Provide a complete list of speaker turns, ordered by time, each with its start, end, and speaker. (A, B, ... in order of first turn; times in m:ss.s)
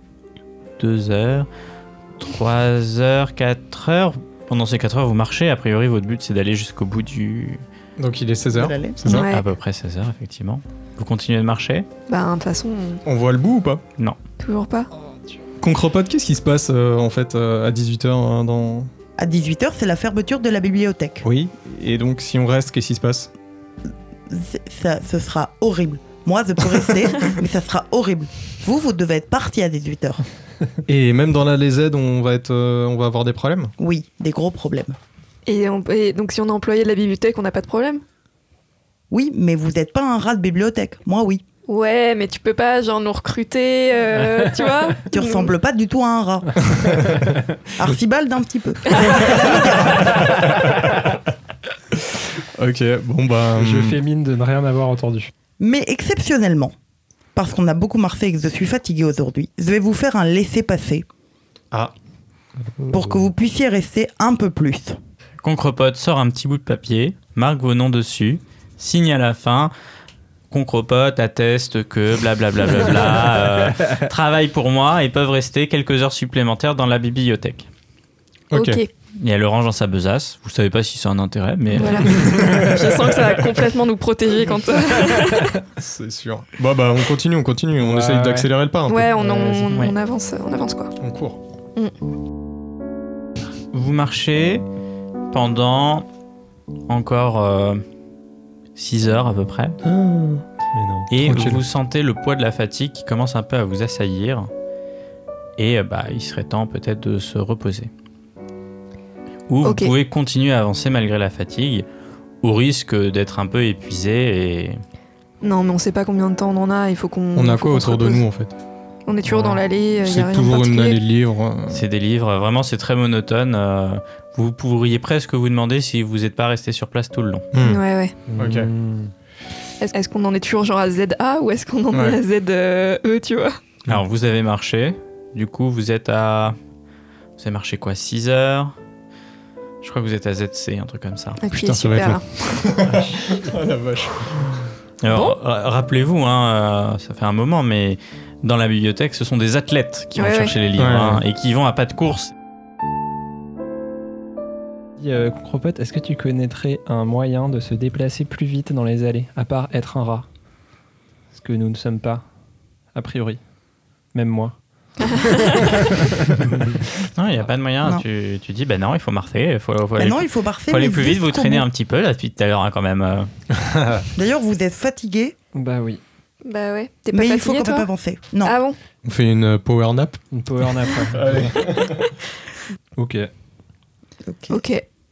0:00.8-0:01.5 A
0:02.2-0:07.6 A
0:08.0-0:09.3 B
0:08.5-0:09.0 C
0:09.1-0:09.4 D
0:09.1-0:11.9 A
0:12.1-0:13.0 D
0:13.0-0:13.8 B
0:14.4-0:14.9 D
0:15.6-0:18.9 B
0:19.2-0:21.2 C
0:21.2-0:23.3 B
0:24.3-0:30.2 C
0:30.8-0:33.7 B
0:33.8-0:35.0 C
0:35.5-0:38.0 D
0:39.1-0:41.4 C
0:41.7-0:45.5 D
0:45.1-0:46.6 C
0:46.6-0:47.3 B
0:47.8-0:50.4 C
0:48.9-0:49.2 D
0:49.2-0:51.2 B
0:51.9-0:54.0 B
0:53.6-0:55.3 E
0:55.6-0:56.7 C
0:57.3-1:01.0 C
1:02.9-1:05.0 C
1:05.4-1:09.7 A
1:10.5-1:17.7 A
1:18.5-1:18.8 B
1:18.5-1:18.9 D
1:19.2-1:22.5 A
1:21.7-1:25.6 D
1:22.1-1:22.8 E
1:23.1-1:23.6 B
1:24.9-1:25.6 E
1:25.8-1:29.1 B
1:27.8-1:28.5 E
1:28.9-1:30.9 D
1:29.1-1:29.8 E
1:31.0-1:31.4 B
1:33.7-1:34.6 A
1:35.3-1:36.0 A
1:36.9-1:37.8 A
1:38.8-1:39.8 A
1:39.9-1:41.1 E
1:41.1-1:44.5 A
1:41.2-1:41.6 B
1:45.6-1:47.9 A
1:49.5-1:51.8 A
1:49.6-1:49.9 D
1:52.4-1:54.8 A
1:55.4-1:58.2 D
1:57.3-1:58.5 B
1:59.1-2:01.0 D
1:59.3-1:59.6 E
2:00.0-2:01.8 B
2:01.7-2:07.5 A
2:07.5-2:07.8 B
2:07.6-2:08.1 D
2:08.3-2:09.1 E
2:08.4-2:08.7 B
2:09.8-2:13.6 D
2:11.9-2:12.2 B
2:13.9-2:16.6 A
2:17.4-2:18.7 A
2:19.8-2:21.4 A
2:21.4-2:22.6 D
2:21.5-2:24.7 B
2:22.8-2:23.6 E
2:25.0-2:32.3 A
2:25.1-2:25.4 D
2:30.2-2:30.6 D
2:30.8-2:31.2 B
2:35.0-2:40.2 E
2:41.3-2:42.2 E
2:42.9-2:43.4 E
2:44.1-2:46.8 E
2:45.0-2:45.8 D
2:47.2-2:53.3 A
2:50.0-2:51.6 C
2:53.6-2:54.0 B
2:54.1-2:55.3 C
2:55.5-2:56.0 E
2:56.4-2:57.9 D
2:57.1-2:58.5 C
2:58.4-2:58.8 D
2:59.0-3:00.2 B
3:00.3-3:01.6 E
3:01.1-3:02.2 B
3:03.0-3:03.3 E
3:04.2-3:04.6 C
3:04.5-3:04.8 D